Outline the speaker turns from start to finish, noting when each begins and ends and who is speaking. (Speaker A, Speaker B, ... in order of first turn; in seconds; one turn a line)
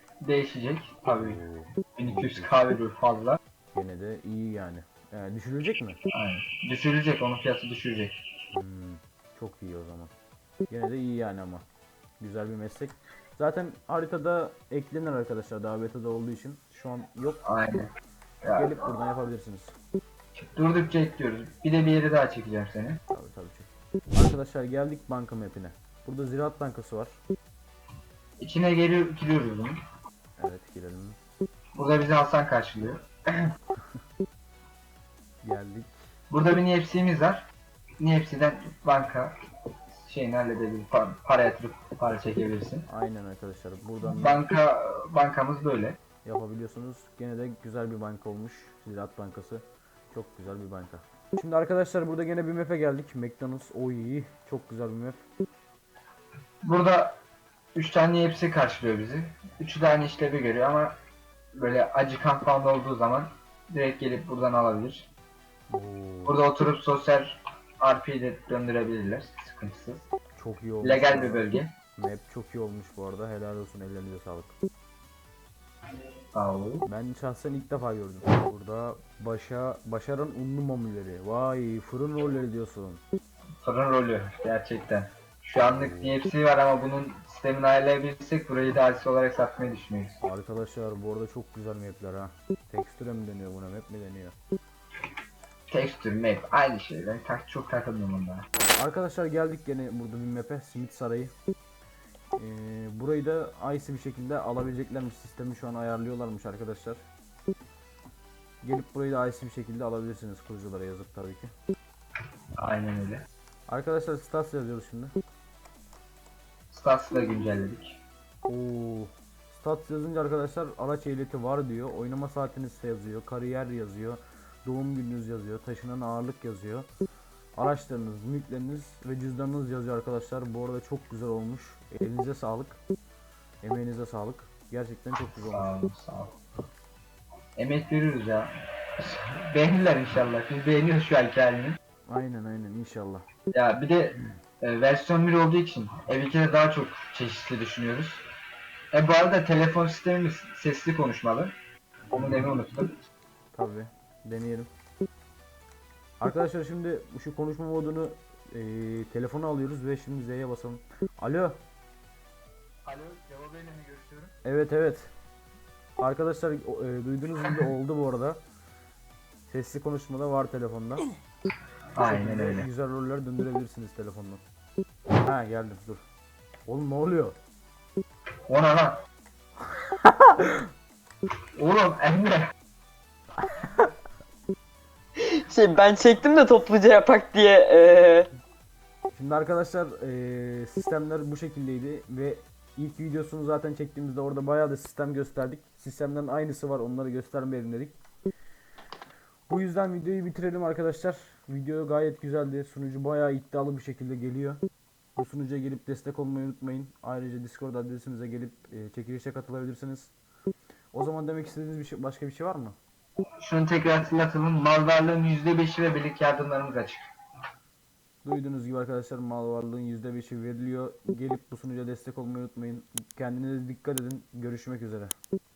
Speaker A: 0.2-1.4
Speaker B: 1.1-2.5
Speaker A: 2.0-3.4
Speaker B: 3.7-6.0
Speaker A: 6.1-8.1
Speaker B: 8.5-10.1
Speaker B: 10.7-11.7
Speaker B: 12.2-17.4
Speaker A: 17.4-17.9
Speaker A: 18.4-18.9
Speaker B: 18.5-19.8
Speaker A: 20.4-23.0
Speaker B: 23.1-27.2
Speaker A: 28.4-29.8
Speaker B: 30.4-31.2
Speaker A: 31.8-33.0
Speaker B: 35.4-35.9
Speaker A: 36.3-37.5
Speaker A: 38.0-39.4
Speaker A: 40.0-42.9
Speaker B: 42.9-44.5
Speaker A: 44.0-46.0
Speaker B: 46.2-55.2
Speaker A: 56.6-57.2
Speaker A: 57.8-61.0
Speaker A: 61.5-65.1
Speaker B: 65.7-66.4
Speaker A: 66.3-70.0
Speaker B: 70.4-74.5
Speaker A: 70.8-71.7
Speaker A: 76.3-76.9
Speaker B: 76.8-83.0
Speaker A: 83.6-90.2
Speaker B: 85.6-86.2
Speaker B: 90.2-94.4
Speaker A: 95.7-98.5
Speaker B: 98.8-101.3
Speaker B: 102.4-107.0
Speaker B: 108.6-111.5
Speaker A: 112.6-113.2
Speaker B: 113.7-115.2
Speaker A: 116.7-118.0
Speaker B: 118.5-126.9
Speaker B: 127.6-132.8
Speaker B: 133.6-135.8
Speaker A: 135.4-136.4
Speaker A: 137.6-141.8
Speaker B: 142.1-143.3
Speaker A: 143.5-148.2
Speaker A: 148.9-151.5
Speaker B: 152.1-152.5
Speaker A: 152.1-153.0
Speaker B: 153.5-154.7
Speaker B: 156.2-161.6
Speaker A: 162.8-164.3
Speaker B: 164.4-165.1
Speaker B: 166.0-168.4
Speaker B: 169.5-171.1
Speaker A: 171.9-172.7
Speaker B: 172.0-174.4
Speaker B: 175.2-176.0
Speaker B: 176.7-177.4
Speaker A: 178.5-179.0
Speaker B: 180.0-180.6
Speaker A: 181.6-182.5
Speaker C: 185.3-188.3
Speaker B: 189.1-198.0
Speaker B: 199.5-204.6
Speaker B: 205.2-210.1
Speaker B: 210.9-212.8
Speaker A: 213.4-217.1
Speaker B: 218.2-225.1